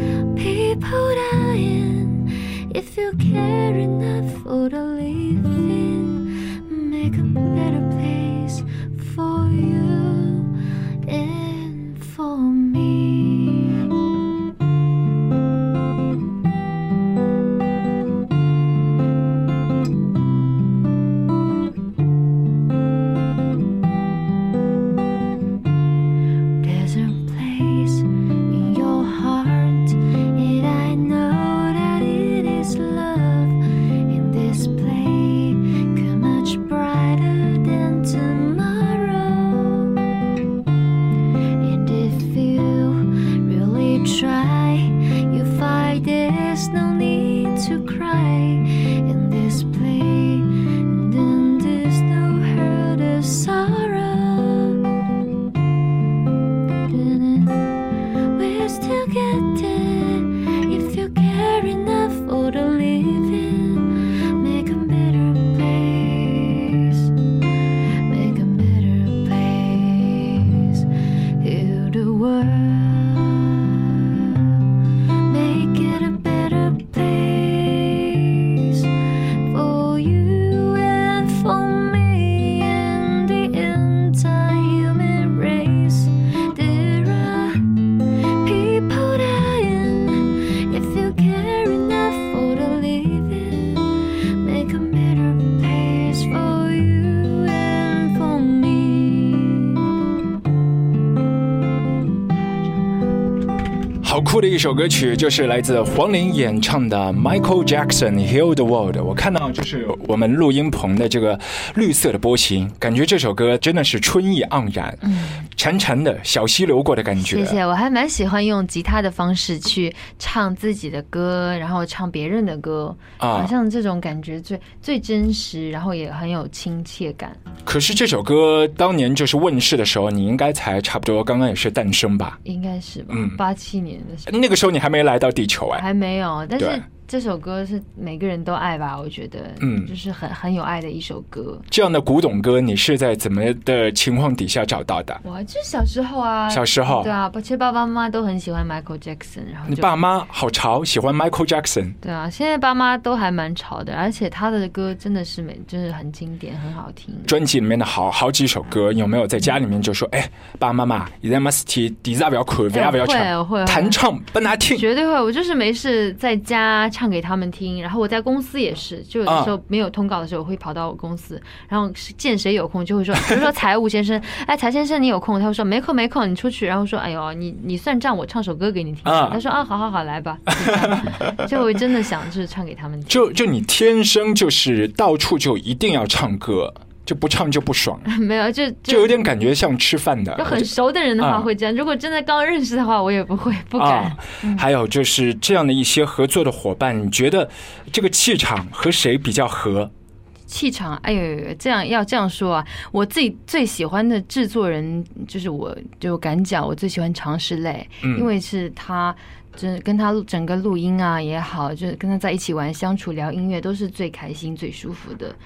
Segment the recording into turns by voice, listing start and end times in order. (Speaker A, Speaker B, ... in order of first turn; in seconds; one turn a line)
Speaker A: 0.3-13.9
Speaker A: 26.6-40.0
Speaker A: 41.6-54.8
Speaker A: 56.9-67.1
Speaker A: 68.0-70.9
Speaker A: 71.4-74.6
Speaker A: 75.2-78.9
Speaker A: 79.5-87.9
Speaker A: 88.4-99.9
Speaker B: 104.0-117.6
Speaker C: 115.0-115.4
Speaker C: 117.2-127.4
Speaker B: 123.2-123.5
Speaker B: 127.7-132.4
Speaker C: 132.4-134.3
Speaker B: 133.1-133.4
Speaker B: 134.3-135.8
Speaker C: 135.7-141.7
Speaker B: 136.6-136.8
Speaker B: 139.6-139.9
Speaker B: 141.7-145.2
Speaker C: 145.2-149.9
Speaker B: 146.5-147.1
Speaker B: 149.7-151.9
Speaker C: 152.0-157.3
Speaker B: 157.3-164.8
Speaker C: 162.7-164.0
Speaker C: 164.7-183.3
Speaker B: 169.3-169.5
Speaker B: 179.1-179.4
Speaker B: 180.5-181.5
Speaker B: 183.1-188.1
Speaker C: 188.1-189.2
Speaker B: 188.9-191.5
Speaker C: 190.4-194.7
Speaker B: 193.8-199.9
Speaker C: 200.5-215.4
Speaker B: 208.0-208.3